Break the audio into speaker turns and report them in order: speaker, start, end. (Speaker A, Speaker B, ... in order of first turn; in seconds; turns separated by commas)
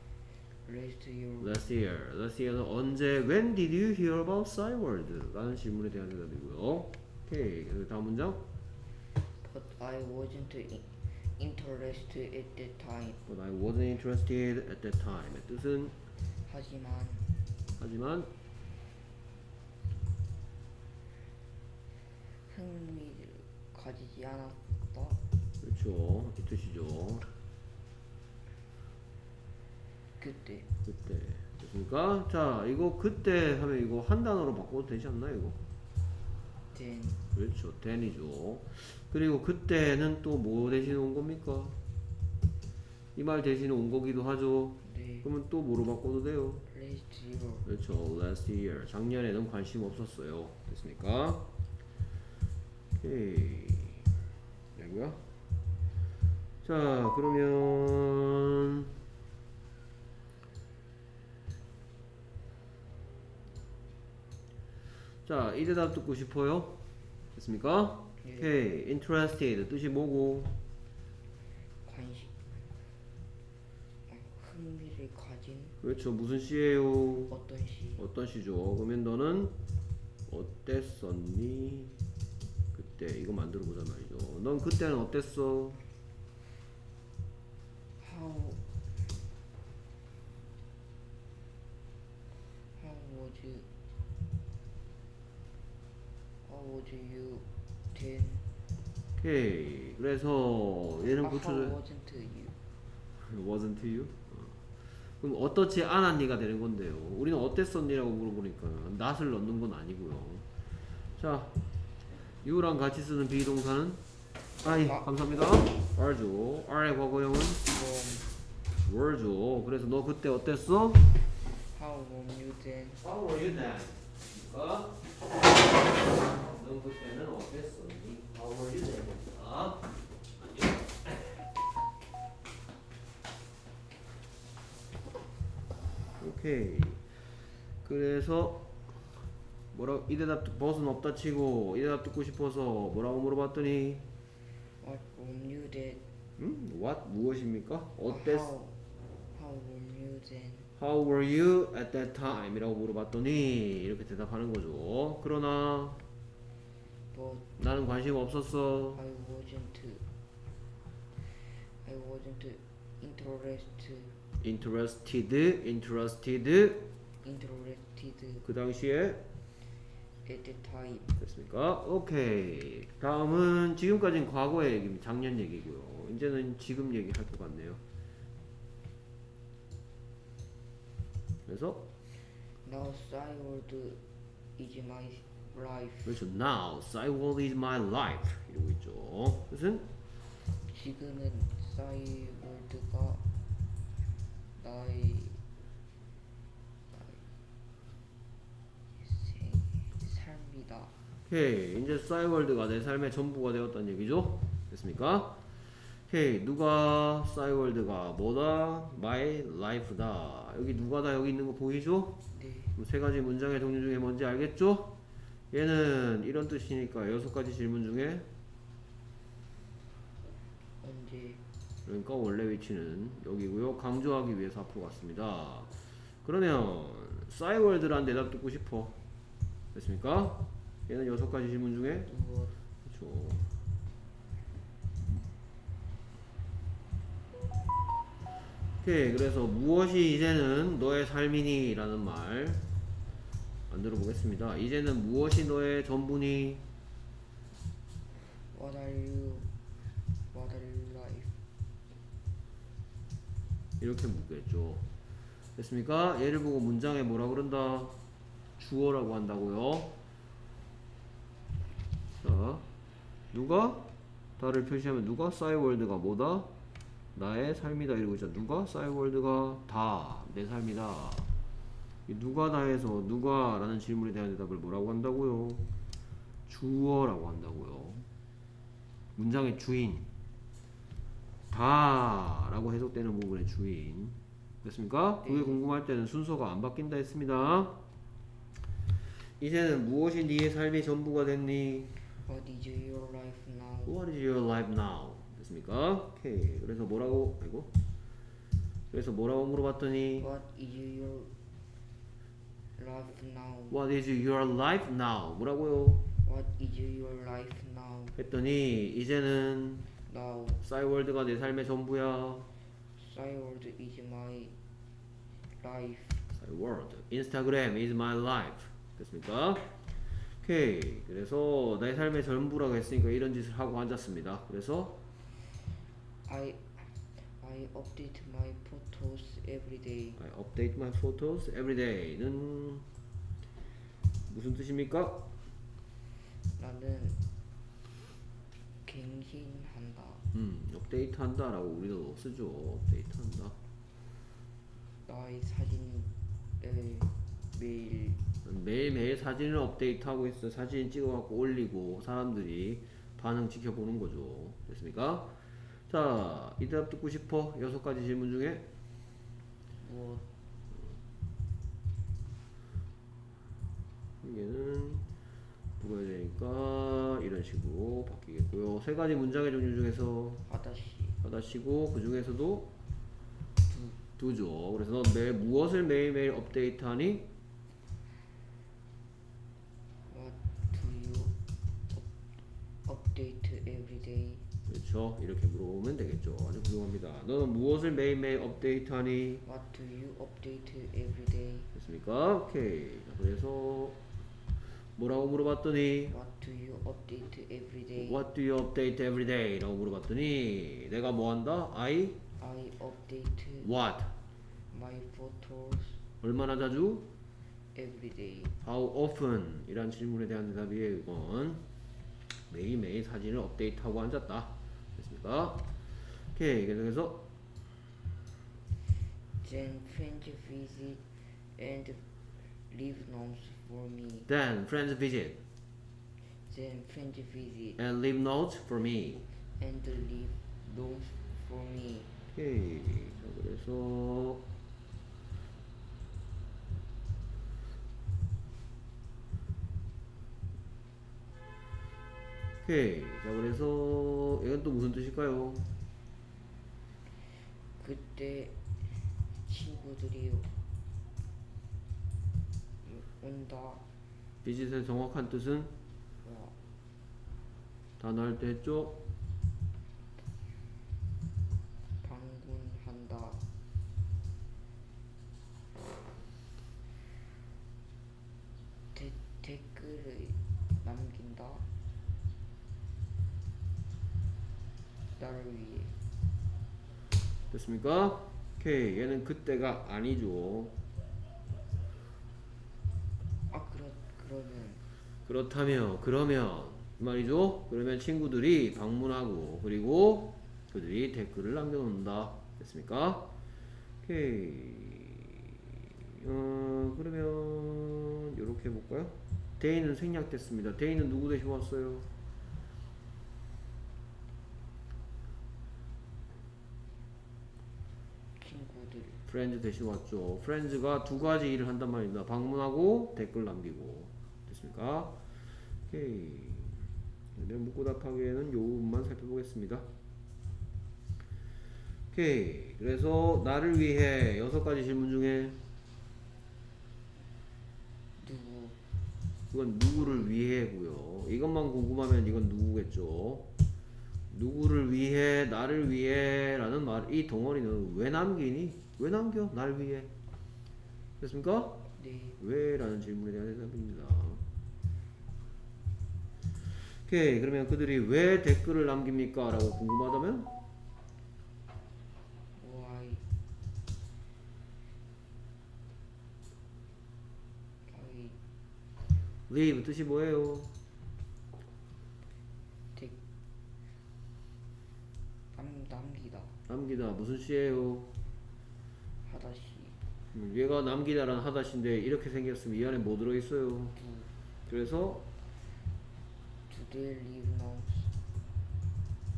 Speaker A: 0.7-1.6, Speaker B: 1.4-8.4, Speaker A: 9.4-13.2, Speaker B: 13.2-15.9, Speaker A: 16.4-17.3, Speaker B: 17.8-18.3, Speaker A: 22.3-25.2, Speaker B: 25.6-27.3, Speaker A: 30.2-30.7, Speaker B: 30.9-35.6, Speaker A: 36.7-37.2, Speaker B: 37.3-41.8, Speaker B: 43.2-46.6, Speaker A: 44.8-45.3, Speaker A: 46.7-47.7, Speaker B: 47.7-51.5, Speaker B: 53.0-54.1, Speaker B: 54.8-55.2, Speaker B: 56.6-58.9, Speaker B: 65.2-66.8, Speaker B: 67.4-70.5, Speaker A: 68.2-68.5, Speaker A: 71.8-72.8, Speaker A: 74.1-75.8, Speaker B: 75.8-77.3, Speaker A: 77.3-78.0, Speaker B: 78.0-79.5, Speaker B: 80.3-82.0, Speaker B: 82.7-85.8, Speaker A: 88.0-88.7, Speaker A: 92.8-93.7, Speaker A: 96.5-98.5, Speaker B: 99.2-101.8, Speaker A: 101.2-102.6, Speaker B: 103.2-104.6, Speaker B: 105.2-110.5, Speaker B: 111.2-111.5, Speaker B: 112.4-114.0, Speaker B: 114.6-117.7, Speaker A: 117.7-118.3, Speaker B: 118.8-121.0, Speaker A: 121.6-123.0, Speaker B: 123.0-125.0, Speaker B: 126.3-129.8, Speaker B: 130.6-131.4, Speaker B: 136.2-137.0, Speaker B: 137.8-138.7, Speaker B: 139.7-144.1, Speaker A: 144.8-146.0, Speaker B: 146.4-148.5, Speaker A: 148.1-148.8, Speaker A: 149.3-150.7, Speaker B: 150.8-156.0, Speaker A: 157.1-157.5, Speaker B: 157.6-159.0, Speaker A: 158.9-160.0, Speaker A: 161.6-164.2, Speaker B: 164.4-166.8, Speaker A: 167.2-168.5, Speaker B: 168.4-169.2, Speaker A: 170.2-171.2, Speaker B: 171.2-177.8, Speaker B: 181.5-181.8, Speaker A: 182.6-184.0, Speaker A: 184.6-186.2, Speaker B: 186.1-189.8, Speaker A: 190.6-193.2, Speaker A: 194.6-195.4, Speaker A: 196.9-197.3, Speaker A: 198.9-200.9, Speaker B: 201.3-205.4, Speaker B: 206.1-212.2, Speaker A: 212.3-212.7, Speaker B: 212.8-214.9, Speaker B: 215.5-218.3, Speaker A: 220.8-221.4, Speaker B: 221.8-225.7, Speaker B: 226.2-228.9, Speaker B: 229.7-232.1, Speaker A: 232.1-232.5, Speaker B: 232.8-233.5, Speaker B: 238.8-242.7, Speaker B: 243.7-246.6, Speaker A: 248.3-249.5, Speaker A: 250.3-251.3, Speaker B: 253.8-254.8, Speaker B: 255.6-258.0, Speaker B: 258.6-259.9, Speaker B: 262.2-262.6, Speaker B: 263.3-263.9, Speaker B: 264.4-266.5, Speaker B: 267.1-271.3, Speaker B: 272.1-275.6, Speaker B: 276.5-278.1, Speaker B: 279.1-280.1, Speaker B: 281.5-287.8, Speaker A: 285.2-285.6, Speaker B: 289.4-291.9, Speaker A: 292.1-294.0, Speaker B: 293.9-297.7, Speaker B: 298.9-300.3, Speaker A: 300.2-301.3, Speaker A: 302.8-303.8, Speaker B: 303.7-306.0, Speaker A: 306.2-308.2, Speaker B: 308.2-309.9, Speaker A: 310.1-310.6, Speaker B: 310.6-312.5, Speaker A: 313.0-314.5, Speaker A: 315.5-316.2, Speaker B: 316.3-319.7, Speaker B: 320.4-325.0, Speaker A: 326.2-330.2, Speaker B: 330.2-332.9, Speaker B: 334.3-335.2, Speaker A: 336.6-337.2, Speaker A: 338.9-340.2, Speaker B: 340.3-343.5, Speaker A: 345.0-348.2, Speaker B: 348.4-355.3, Speaker B: 355.9-358.6, Speaker A: 359.8-360.2, Speaker B: 364.2-365.1, Speaker B: 365.8-370.4, Speaker A: 370.4-371.2, Speaker B: 371.2-372.7, Speaker A: 373.7-374.0, Speaker B: 374.2-377.2, Speaker A: 380.1-381.3, Speaker A: 382.9-384.4, Speaker B: 384.7-389.4, Speaker A: 389.4-391.7, Speaker B: 391.7-394.0, Speaker B: 395.0-396.1, Speaker A: 396.1-398.2, Speaker B: 398.0-402.2, Speaker A: 402.4-403.7, Speaker B: 403.6-404.1, Speaker A: 404.7-406.0, Speaker B: 406.2-407.0, Speaker A: 407.8-408.5, Speaker B: 408.6-411.6, Speaker B: 412.5-415.6, Speaker B: 416.3-417.2, Speaker A: 419.4-422.0, Speaker A: 422.6-424.3, Speaker B: 424.3-425.4, Speaker A: 426.2-427.8, Speaker B: 427.8-429.2, Speaker A: 429.5-432.1, Speaker B: 432.3-434.4, Speaker B: 442.6-445.7, Speaker A: 447.8-450.6, Speaker A: 452.8-453.8, Speaker B: 454.4-455.7, Speaker A: 456.2-456.5, Speaker B: 458.0-459.0, Speaker A: 462.0-463.4, Speaker A: 468.9-471.6, Speaker A: 475.2-475.9, Speaker B: 477.5-480.7, Speaker A: 483.5-484.8, Speaker B: 485.2-493.3, Speaker B: 494.0-502.1, Speaker A: 508.4-509.2, Speaker B: 509.3-515.1, Speaker B: 515.9-516.8, Speaker B: 517.4-519.9, Speaker B: 522.1-525.6, Speaker A: 528.2-528.8, Speaker B: 529.5-533.4, Speaker B: 534.3-540.1, Speaker B: 541.2-541.8, Speaker A: 541.9-542.4, Speaker B: 542.4-544.4, Speaker B: 547.0-550.5, Speaker A: 552.5-553.2, Speaker A: 557.9-558.4, Speaker B: 559.5-560.7, Speaker A: 565.5-566.6, Speaker B: 566.7-568.1, Speaker A: 569.2-570.0, Speaker B: 570.3-573.9, Speaker A: 574.0-574.3, Speaker B: 574.7-575.2, Speaker A: 576.7-578.1